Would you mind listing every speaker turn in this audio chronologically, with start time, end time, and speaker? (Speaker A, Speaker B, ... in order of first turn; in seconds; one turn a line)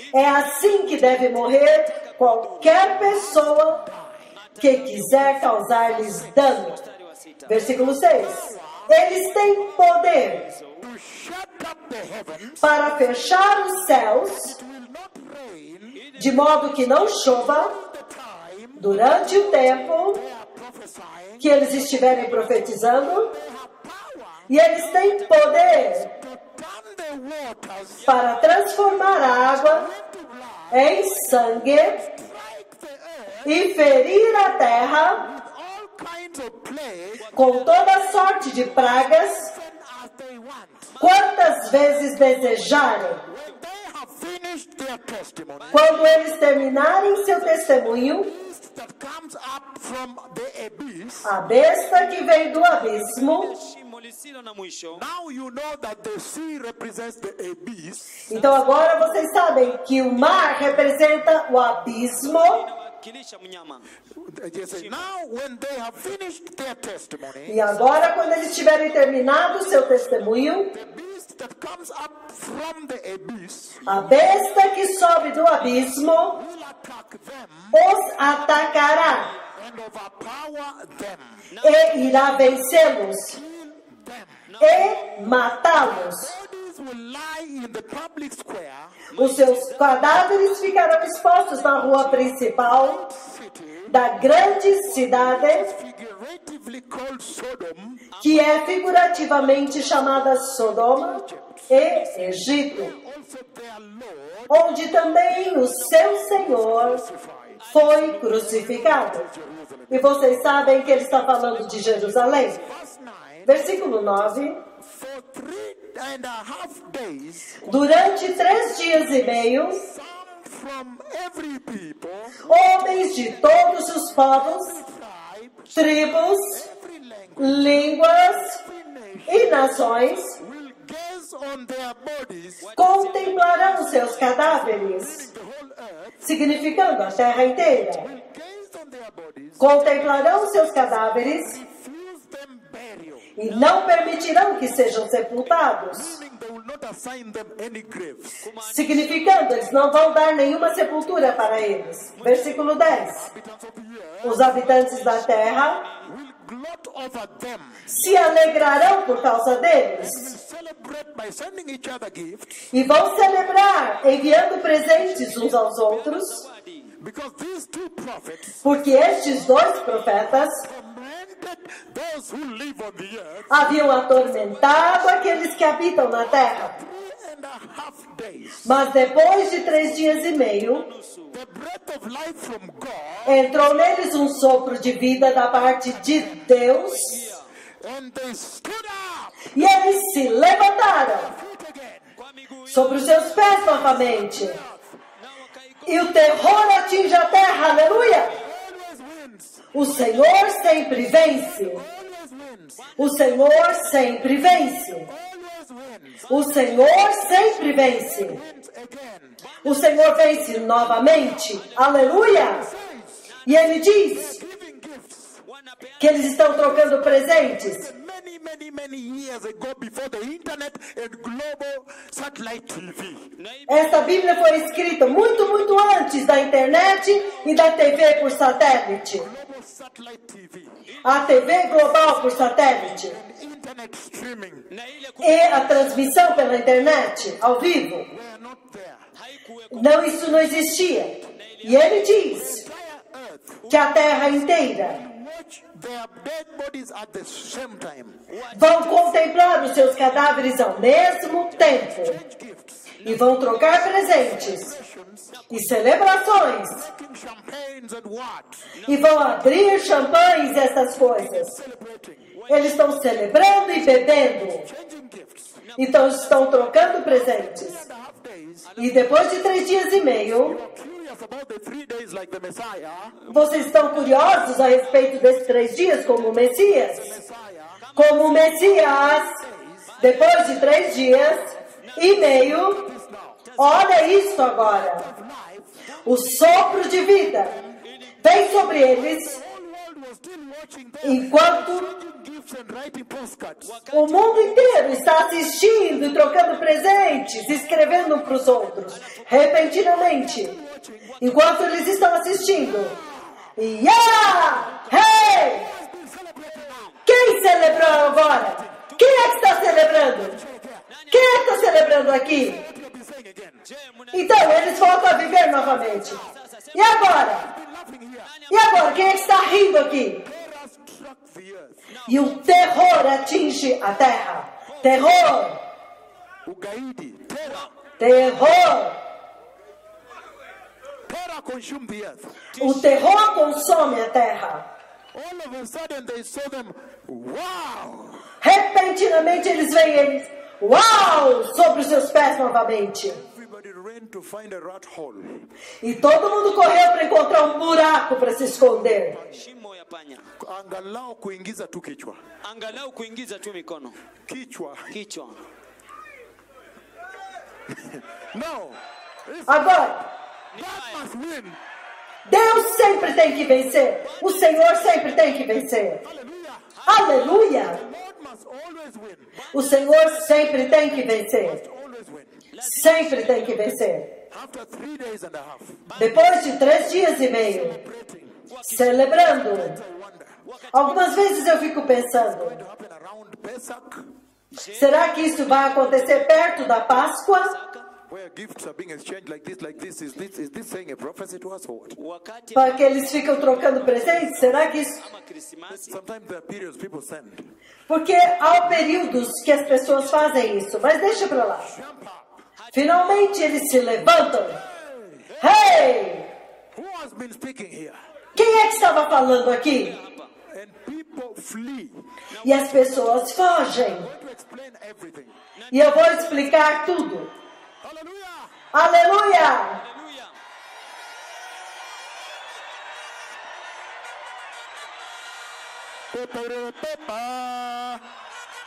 Speaker A: 0.1-3.8
Speaker B: 1.9-3.0
Speaker C: 3.0-4.3
Speaker B: 4.4-7.9
Speaker A: 4.6-6.8
Speaker C: 5.9-6.2
Speaker A: 7.5-10.4
Speaker B: 10.5-10.8
Speaker C: 10.8-12.9
Speaker A: 12.6-14.6
Speaker C: 14.4-16.0
Speaker B: 16.0-16.5
Speaker A: 16.1-17.7
Speaker C: 17.6-22.4
Speaker A: 18.8-20.2
Speaker A: 21.4-23.3
Speaker C: 23.1-28.2
Speaker A: 24.5-26.1
Speaker A: 28.1-29.9
Speaker C: 29.6-31.0
Speaker A: 30.7-32.0
Speaker C: 31.8-33.5
Speaker A: 33.4-35.2
Speaker C: 35.1-37.4
Speaker A: 37.3-39.5
Speaker C: 39.3-41.0
Speaker A: 41.0-43.2
Speaker C: 43.2-45.9
Speaker B: 45.6-46.5
Speaker A: 45.7-48.3
Speaker C: 48.0-51.4
Speaker A: 51.2-53.5
Speaker B: 53.0-55.0
Speaker C: 54.9-58.3
Speaker A: 58.3-62.6
Speaker B: 62.1-63.9
Speaker C: 64.2-67.6
Speaker B: 64.7-65.0
Speaker A: 67.5-70.7
Speaker C: 70.6-74.0
Speaker A: 73.8-76.4
Speaker C: 76.3-77.8
Speaker A: 77.7-79.3
Speaker C: 79.3-81.4
Speaker B: 81.5-82.2
Speaker A: 81.6-83.4
Speaker C: 83.3-84.5
Speaker A: 84.6-86.3
Speaker C: 86.2-89.1
Speaker A: 89.1-93.0
Speaker B: 89.1-90.1
Speaker C: 92.4-98.2
Speaker A: 93.9-95.7
Speaker B: 98.2-98.5
Speaker A: 98.2-102.9
Speaker C: 101.0-104.9
Speaker A: 104.5-107.0
Speaker C: 105.5-111.3
Speaker A: 107.7-109.2
Speaker A: 109.9-112.6
Speaker C: 111.8-113.6
Speaker A: 113.5-114.6
Speaker C: 114.7-117.6
Speaker A: 117.6-119.8
Speaker C: 119.7-122.5
Speaker A: 122.4-124.8
Speaker C: 124.6-129.8
Speaker A: 125.7-126.6
Speaker A: 127.4-128.6
Speaker A: 129.3-130.3
Speaker C: 130.3-132.7
Speaker B: 132.6-134.9
Speaker A: 132.8-135.3
Speaker C: 135.1-136.3
Speaker A: 136.2-138.1
Speaker C: 137.9-143.5
Speaker A: 139.6-141.6
Speaker A: 143.4-146.2
Speaker C: 145.9-148.5
Speaker B: 148.4-149.7
Speaker A: 148.6-153.3
Speaker C: 152.2-154.8
Speaker A: 154.2-155.8
Speaker B: 155.5-156.1
Speaker C: 156.0-157.9
Speaker A: 157.9-160.3
Speaker C: 160.1-162.7
Speaker A: 162.7-166.4
Speaker B: 165.9-166.9
Speaker C: 167.0-168.9
Speaker A: 168.6-170.6
Speaker C: 170.5-173.9
Speaker A: 173.5-176.7
Speaker C: 176.4-178.7
Speaker A: 178.6-180.8
Speaker B: 180.6-181.4
Speaker C: 181.3-183.4
Speaker A: 183.2-187.4
Speaker B: 187.1-187.4
Speaker C: 187.8-189.5
Speaker A: 189.5-191.3
Speaker C: 191.1-192.1
Speaker B: 192.2-193.4
Speaker A: 192.7-194.6
Speaker C: 193.9-195.0
Speaker B: 195.2-196.6
Speaker A: 195.8-198.3
Speaker C: 198.2-203.2
Speaker A: 199.7-201.8
Speaker A: 203.0-205.1
Speaker C: 205.0-209.9
Speaker A: 206.3-208.4
Speaker A: 209.6-212.6
Speaker C: 212.2-213.3
Speaker A: 213.4-214.4
Speaker C: 214.1-215.4
Speaker B: 215.4-216.6
Speaker A: 216.0-217.9
Speaker C: 217.8-223.3
Speaker B: 223.4-224.2
Speaker A: 223.7-229.3
Speaker C: 229.1-230.8
Speaker B: 231.0-231.4
Speaker A: 231.0-233.2
Speaker C: 232.0-234.7
Speaker B: 234.7-236.1
Speaker A: 235.2-238.1
Speaker C: 238.1-239.1
Speaker B: 239.2-240.4
Speaker A: 239.7-242.6
Speaker B: 241.3-242.0
Speaker C: 242.3-248.3
Speaker A: 243.7-245.0
Speaker B: 248.3-249.1
Speaker A: 248.5-252.2
Speaker C: 251.6-253.1
Speaker A: 253.0-254.7
Speaker C: 253.9-255.5
Speaker A: 255.5-256.9
Speaker C: 256.8-258.7
Speaker A: 258.8-261.5
Speaker C: 261.2-262.4
Speaker A: 262.5-264.6
Speaker C: 264.4-265.8
Speaker A: 265.8-267.8
Speaker C: 267.6-268.8
Speaker A: 268.8-270.6
Speaker C: 270.4-273.2
Speaker B: 273.2-274.4
Speaker A: 273.3-277.1
Speaker C: 276.9-277.9
Speaker A: 277.9-279.3
Speaker C: 279.1-280.0
Speaker A: 280.0-282.8
Speaker C: 282.3-283.5
Speaker B: 283.5-283.9
Speaker A: 283.6-285.1
Speaker C: 284.9-286.2
Speaker A: 286.0-287.5
Speaker C: 287.4-287.8
Speaker B: 287.8-288.5
Speaker A: 288.2-289.4
Speaker C: 289.3-293.8
Speaker A: 291.0-291.9
Speaker B: 293.6-294.7
Speaker A: 293.9-300.6
Speaker C: 299.8-303.2
Speaker A: 301.2-302.9
Speaker A: 303.6-305.7
Speaker C: 304.4-307.0
Speaker A: 307.1-310.4
Speaker C: 307.7-310.9
Speaker B: 310.9-311.6
Speaker A: 311.1-312.6
Speaker C: 312.1-313.6
Speaker B: 313.7-316.9
Speaker A: 314.1-316.2
Speaker A: 316.7-317.5
Speaker C: 317.3-318.3
Speaker B: 318.2-318.9
Speaker A: 318.5-320.2
Speaker C: 320.2-321.8
Speaker B: 321.9-322.4
Speaker A: 322.1-325.6
Speaker C: 326.4-327.7
Speaker A: 328.0-329.0
Speaker C: 331.1-332.5
Speaker A: 332.6-334.6
Speaker B: 332.6-332.9
Speaker C: 335.1-338.3
Speaker A: 338.4-343.2
Speaker C: 343.2-345.5
Speaker A: 345.8-349.1
Speaker C: 349.1-349.4
Speaker B: 349.2-350.2
Speaker C: 350.4-352.2
Speaker B: 352.4-354.0
Speaker C: 354.2-354.9
Speaker B: 354.9-355.4
Speaker C: 357.7-359.9
Speaker A: 359.5-360.0
Speaker C: 360.5-361.6
Speaker A: 362.2-366.0
Speaker C: 366.0-366.8
Speaker A: 366.9-367.8
Speaker C: 367.5-369.4
Speaker A: 369.5-371.6
Speaker C: 371.4-372.4
Speaker B: 372.5-373.8
Speaker A: 372.6-374.1
Speaker C: 374.3-376.8
Speaker A: 376.0-377.8
Speaker C: 377.3-380.4
Speaker B: 378.5-379.0
Speaker A: 378.6-379.8
Speaker B: 380.5-381.2
Speaker A: 380.7-382.6
Speaker C: 382.3-384.1
Speaker A: 384.7-387.5
Speaker B: 387.5-387.9
Speaker C: 388.1-391.9
Speaker B: 392.0-395.9
Speaker A: 392.5-395.0
Speaker C: 395.7-397.5
Speaker A: 397.9-401.7
Speaker C: 401.5-402.4
Speaker B: 402.6-402.9
Speaker A: 402.7-404.6
Speaker C: 404.8-405.3
Speaker A: 405.4-406.3
Speaker C: 406.7-408.0
Speaker A: 408.3-410.0
Speaker B: 409.9-410.3
Speaker C: 410.5-412.1
Speaker B: 412.4-412.8
Speaker A: 412.4-414.1
Speaker C: 413.9-415.3
Speaker B: 415.7-416.2
Speaker A: 415.7-417.3
Speaker C: 417.8-418.5
Speaker A: 418.7-419.8
Speaker B: 419.8-420.3
Speaker C: 426.1-428.1